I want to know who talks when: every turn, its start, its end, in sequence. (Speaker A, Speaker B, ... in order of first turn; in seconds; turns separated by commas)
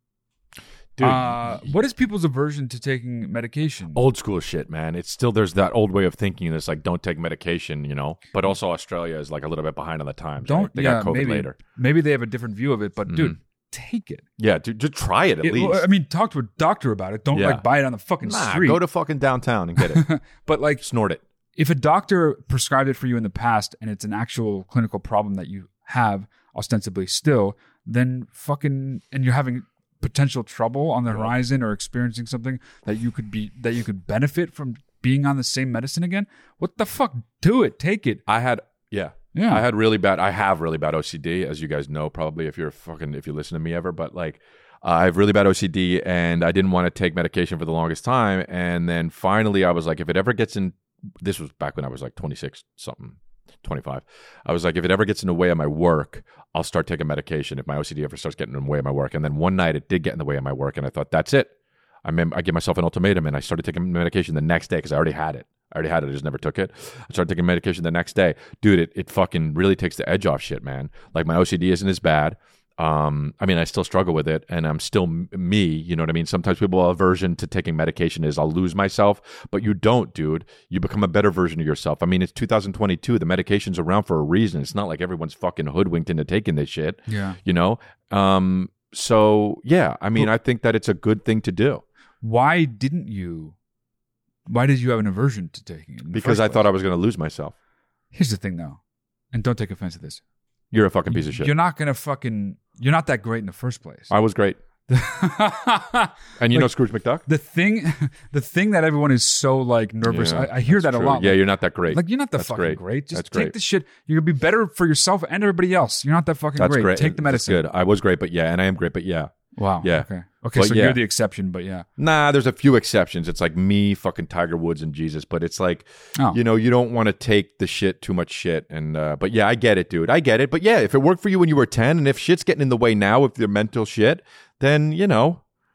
Speaker A: 0.9-1.7, Speaker B: 1.0-4.0, Speaker A: 3.9-11.6, Speaker B: 10.4-14.2, Speaker A: 13.1-13.4, Speaker A: 14.4-15.8, Speaker B: 15.4-18.8, Speaker A: 17.3-17.6, Speaker A: 18.2-20.1, Speaker B: 19.8-20.8, Speaker A: 20.8-21.2, Speaker B: 21.6-38.2, Speaker A: 38.3-61.5, Speaker B: 39.3-39.6, Speaker A: 62.0-91.8, Speaker B: 87.1-87.4, Speaker B: 92.2-93.5, Speaker B: 94.5-96.6, Speaker A: 96.1-97.5, Speaker B: 98.1-98.8, Speaker B: 99.3-100.2, Speaker A: 100.7-101.5, Speaker B: 101.1-104.1, Speaker A: 104.1-104.6, Speaker B: 104.9-117.6, Speaker A: 106.4-107.2, Speaker A: 110.0-113.5, Speaker A: 116.6-121.0, Speaker B: 119.5-121.8, Speaker A: 122.0-135.4